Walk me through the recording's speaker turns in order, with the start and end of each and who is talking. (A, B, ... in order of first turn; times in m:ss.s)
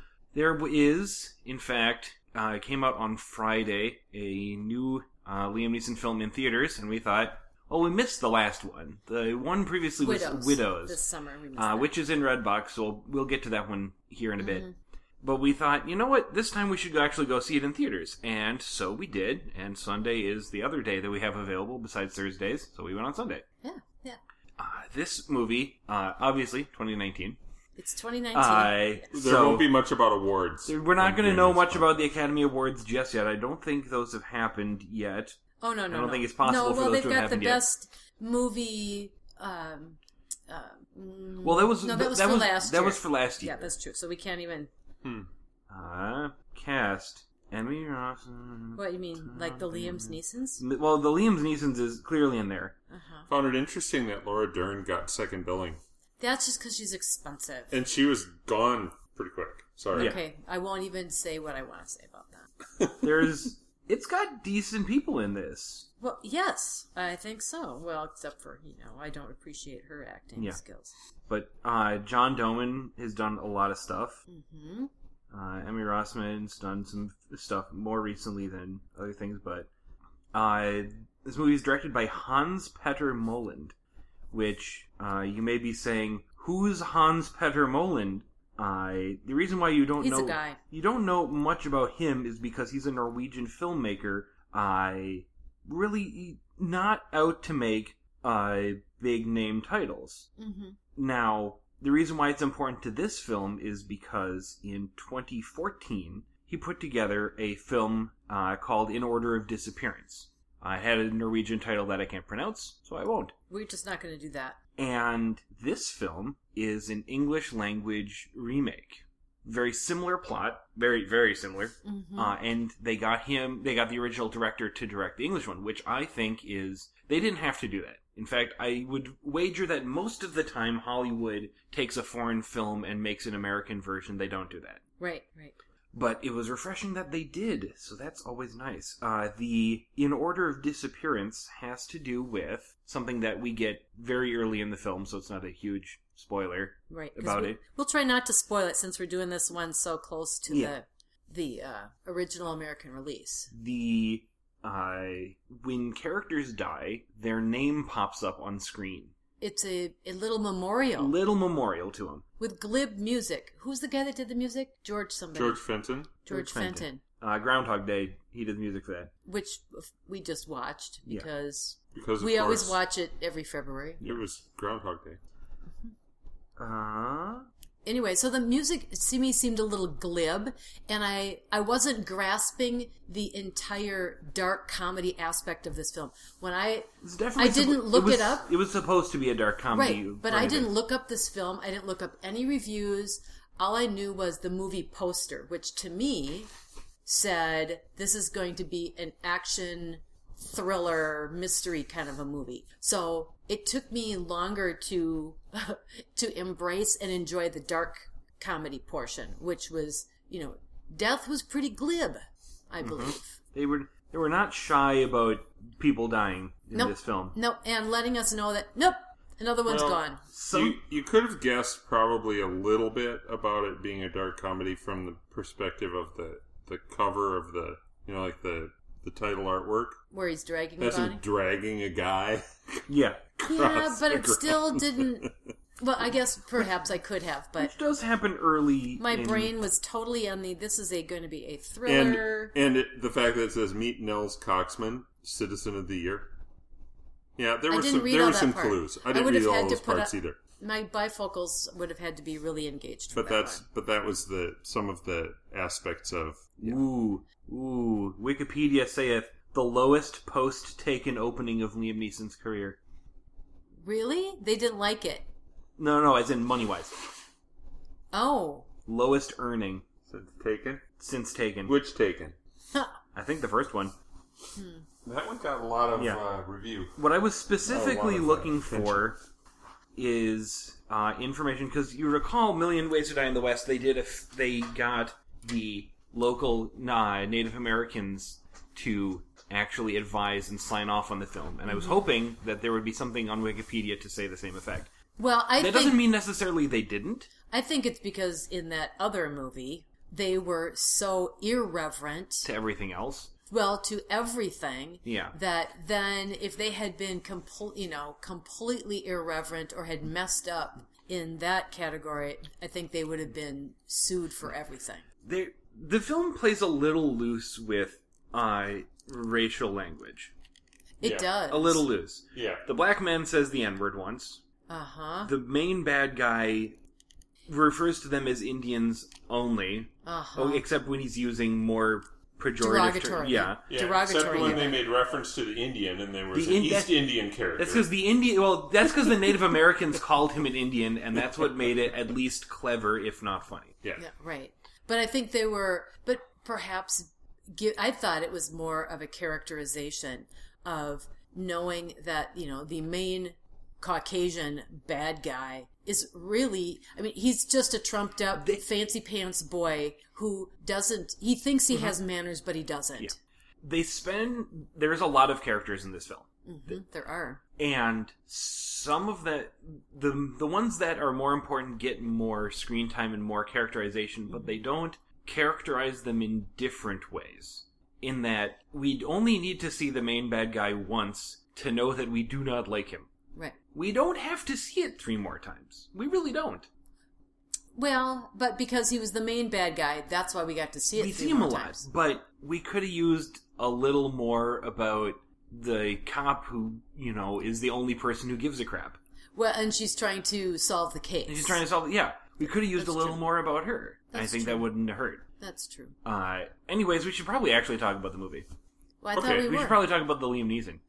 0:00.3-0:11.0 A
0:10.0-0:11.9 B
0:11.6-0:14.6 A
0:14.4-0:14.7 B
0:15.2-0:23.4 A
0:23.6-0:24.2 B
0:24.6-0:27.4 A
0:27.8-0:29.0 B
0:28.3-0:29.7 A
0:29.1-0:32.1 C
0:30.7-0:35.4 A
0:35.6-0:40.0 B
0:35.9-0:37.6 A
0:40.5-0:44.7 B
0:41.4-0:43.7 A
0:45.7-0:52.8 A
0:48.8-0:50.6 B
0:52.9-0:53.3 B
0:53.3-0:55.8 C
0:56.2-0:57.7 B
0:57.7-1:00.2 C
0:59.9-1:00.2 A
0:59.9-1:02.5 B
1:02.8-1:03.2 C
1:03.0-1:05.9 A
1:06.0-1:10.9 B
1:11.3-1:14.2 A
1:14.3-1:14.9 B
1:15.3-1:19.7 A
1:20.3-1:23.8 A
1:24.3-1:40.3 A
1:30.0-1:30.6 B
1:40.4-1:40.8 B
1:41.0-1:53.3 A
1:53.5-1:54.6 B
1:54.8-2:14.8 A
2:01.8-2:02.4 B
2:15.0-2:15.6 B
2:15.9-2:27.6 A
2:26.9-2:33.5 B
2:30.5-2:30.8 A
2:33.5-2:39.1 A
2:39.4-2:41.2 B
2:41.0-2:42.2 A
2:42.4-2:45.6 B
2:45.3-2:46.8 C
2:46.2-2:47.0 B
2:47.2-2:49.1 A
2:49.3-2:54.1 B
2:52.0-2:52.8 C
2:54.0-2:55.2 C
2:56.6-2:57.5 A
2:57.9-3:08.5 B
3:07.0-3:10.7 A
3:09.7-3:16.5 B
3:17.0-3:33.4 B
3:32.8-3:37.4 A
3:36.7-3:40.2 B
3:39.7-3:50.0 C
3:40.3-3:40.8 A
3:50.1-3:51.2 B
3:50.8-3:52.8 C
3:52.9-3:53.3 A
3:53.4-3:55.3 C
3:53.4-3:55.3 B
3:55.8-3:57.7 B
3:57.6-3:59.6 A
3:59.0-4:02.5 B
4:01.8-4:06.3 C
4:07.4-4:10.4 C
4:07.7-4:13.6 B
4:13.1-4:16.8 C
4:16.6-4:22.8 A
4:23.8-4:25.3 B
4:25.8-4:27.0 A
4:28.1-4:28.7 B
4:28.9-4:29.8 A
4:30.1-4:30.8 C
4:31.0-4:31.7 A
4:31.7-4:32.4 C
4:33.1-4:34.0 A
4:34.6-4:34.9 B
4:35.0-4:37.0 C
4:36.0-4:36.2 A
4:37.0-4:39.2 A
4:37.6-4:39.1 C
4:40.0-4:54.9 A
4:51.7-4:52.1 B
4:55.2-4:56.1 B
4:55.6-4:57.3 A
4:57.5-5:02.5 B
5:02.4-5:03.3 A
5:03.5-5:15.0 B
5:05.0-5:05.4 A
5:15.2-5:20.3 A
5:21.0-5:21.9 B
5:21.0-5:21.3 C
5:21.5-5:24.4 A
5:22.3-5:22.7 C
5:24.7-5:25.3 B
5:25.2-5:26.8 A
5:27.5-5:33.7 A
5:30.0-5:30.6 B
5:32.6-5:34.8 B
5:33.7-5:37.9 C
5:34.3-5:34.7 A
5:36.3-5:43.8 A
5:39.0-5:39.4 C
5:44.0-6:03.2 B
5:58.4-5:58.6 A
6:03.0-6:06.8 A
6:06.5-6:07.4 B
6:07.6-6:23.1 A
6:14.3-6:14.6 B
6:23.7-6:26.7 A
6:27.8-6:31.8 B
6:30.9-6:39.0 A
6:39.4-6:41.6 B
6:41.3-6:45.2 A
6:42.6-6:43.3 B
6:44.1-6:44.7 B
6:45.4-6:46.0 B
6:46.0-6:48.5 A
6:49.0-6:49.8 B
6:49.2-6:49.5 C
6:49.4-6:50.8 A